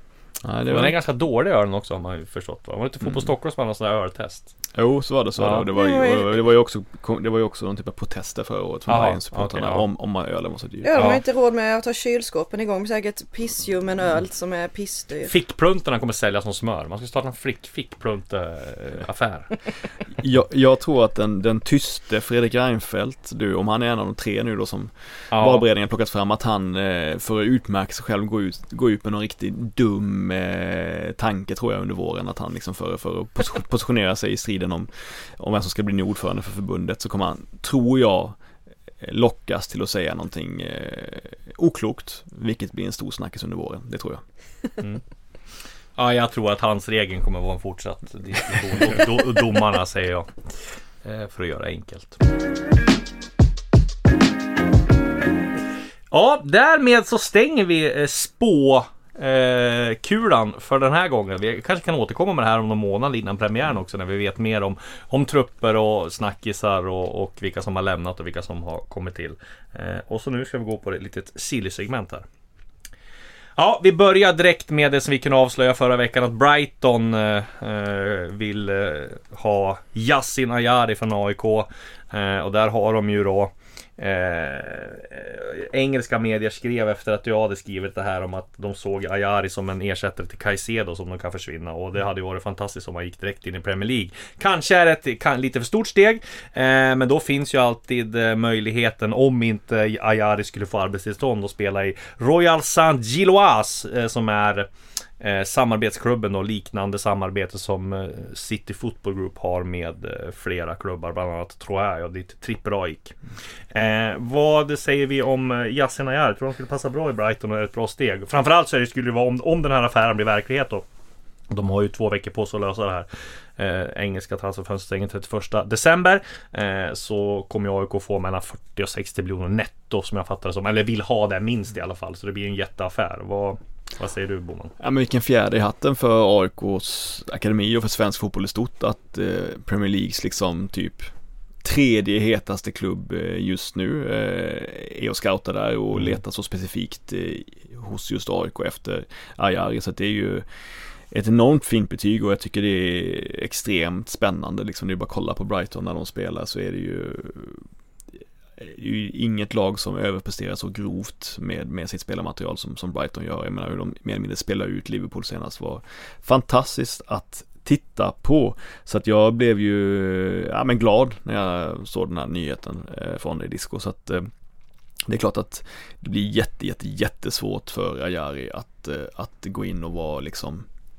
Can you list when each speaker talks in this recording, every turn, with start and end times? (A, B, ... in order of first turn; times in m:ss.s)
0:00.4-0:01.0 A
0:00.7-0:04.5 B
0:03.0-0:03.3 A
0:04.8-0:11.0 A
0:05.4-0:05.7 B
0:05.7-0:06.3 C
0:08.9-0:09.8 B
0:10.8-0:15.3 C
0:10.9-0:11.2 B
0:15.2-0:19.5 B
0:20.2-0:38.4 A
0:25.3-0:25.6 B
0:39.0-0:44.2 A
0:46.0-0:52.2 B
0:56.1-1:12.2 B
1:13.6-1:44.7 B
1:45.2-1:53.1 B
1:53.7-2:00.8 B
2:01.5-2:03.1 B
2:03.6-2:14.7 B
2:14.8-2:21.1 A
2:21.6-2:30.4 A
2:31.1-2:37.6 A
2:38.6-2:54.3 A
2:55.1-3:00.7 A